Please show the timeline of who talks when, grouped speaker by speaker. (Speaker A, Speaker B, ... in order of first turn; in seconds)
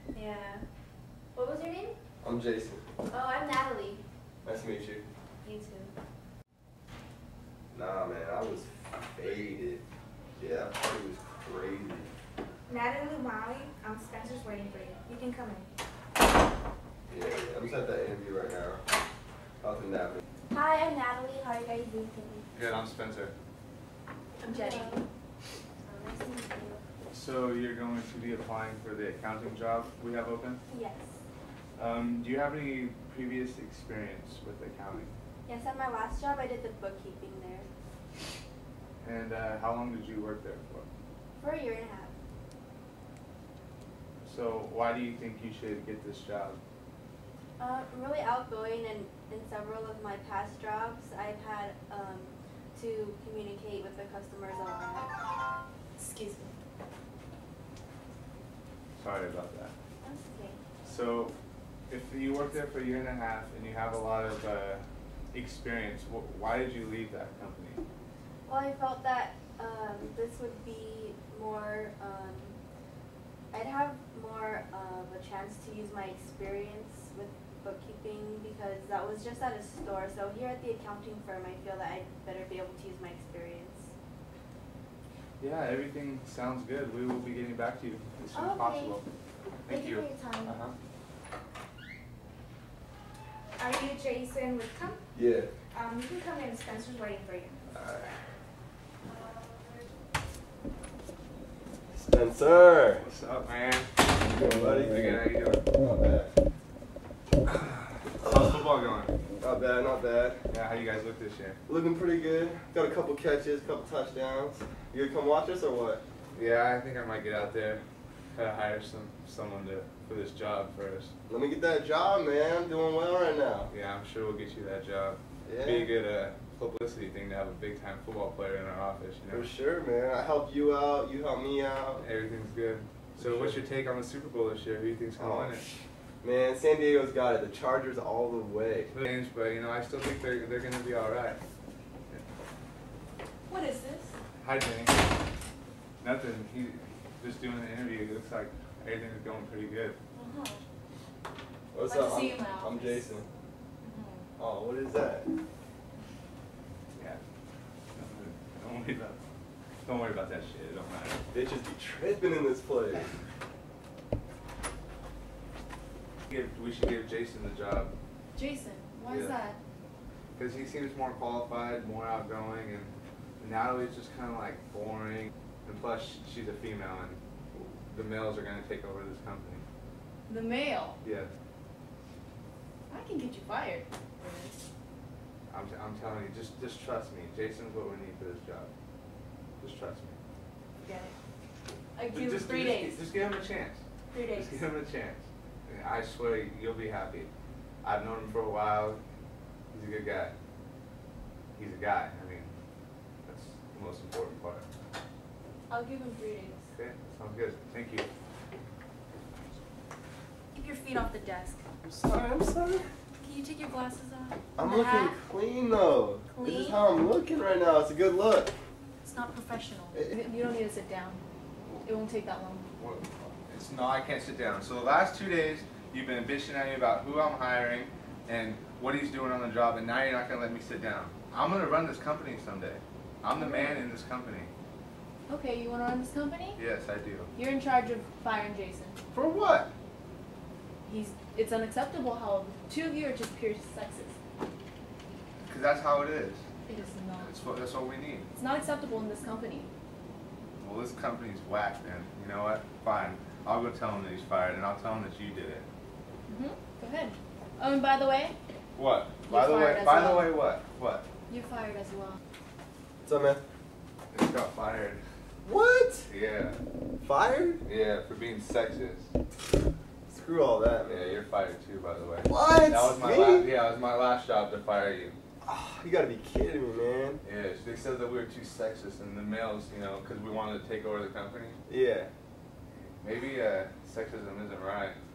Speaker A: 0.1-0.7, 1.3-2.0, 3.1-4.0, 5.4-5.9, 20.5-22.5, 24.5-25.1, 25.8-26.8, 30.7-31.2, 35.5-37.7, 41.4-42.2, 47.6-55.1, 60.0-60.6, 68.5-72.6, 73.5-83.9, 88.3-89.0, 89.7-90.5
Speaker B: 2.2-2.8, 4.4-5.0, 7.7-9.8, 10.4-12.1, 17.1-18.8, 19.6-20.2, 95.2-95.5, 101.9-103.1, 104.3-105.0, 105.8-106.3, 109.4-110.4, 111.7-116.0, 121.3-123.7, 125.5-125.9, 129.3-132.0, 133.2-133.6, 135.2-135.6, 136.2-138.9, 151.7-153.3, 154.4-155.3, 161.3-163.1, 211.8-212.9, 214.6-218.5, 263.0-263.4, 265.4-266.1, 267.0-267.6, 270.1-271.2, 272.3-273.5, 275.4-277.2, 281.7-282.1
Speaker C: 12.7-15.7, 93.6-95.0, 95.7-97.5
Speaker D: 22.6-23.3, 27.1-30.6, 31.8-35.1, 39.0-40.9, 44.2-46.6, 59.0-59.7, 60.8-61.3, 61.9-67.8, 85.4-89.0, 89.7-90.8, 97.7-98.1, 103.0-105.6, 108.2-109.1, 110.5-111.6, 116.3-121.1, 123.7-129.5, 132.0-135.7, 138.9-141.4, 144.4-145.0, 146.0-150.0, 156.9-157.2, 157.9-159.2, 159.8-161.2, 166.3-167.9, 170.4-179.6, 181.0-181.3, 185.5-188.7, 189.6-190.2, 192.1-197.3, 197.8-199.0, 199.7-200.3, 201.6-202.5, 203.3-204.7, 206.7-208.1, 222.8-234.5, 236.6-237.3, 239.1-239.7, 245.5-246.4, 247.2-248.3, 250.6-255.7, 258.8-261.1, 264.1-265.0, 266.1-266.6, 267.6-269.1, 270.9-275.2, 277.2-281.6, 282.8-285.0
Speaker E: 24.4-25.1, 56.0-56.5, 143.5-144.1, 150.1-150.6, 151.8-153.1, 153.8-154.3, 168.3-169.6, 180.3-181.0, 182.9-184.5, 190.8-191.2, 192.0-193.0, 194.1-194.7, 205.7-206.7, 210.5-211.6, 213.2-215.2, 216.3-216.8, 219.0-221.2, 221.8-222.7, 233.3-233.8, 235.3-236.6, 237.3-239.0, 240.9-244.2, 246.7-247.3, 248.4-249.7, 256.3-258.4, 259.3-260.4, 261.3-262.2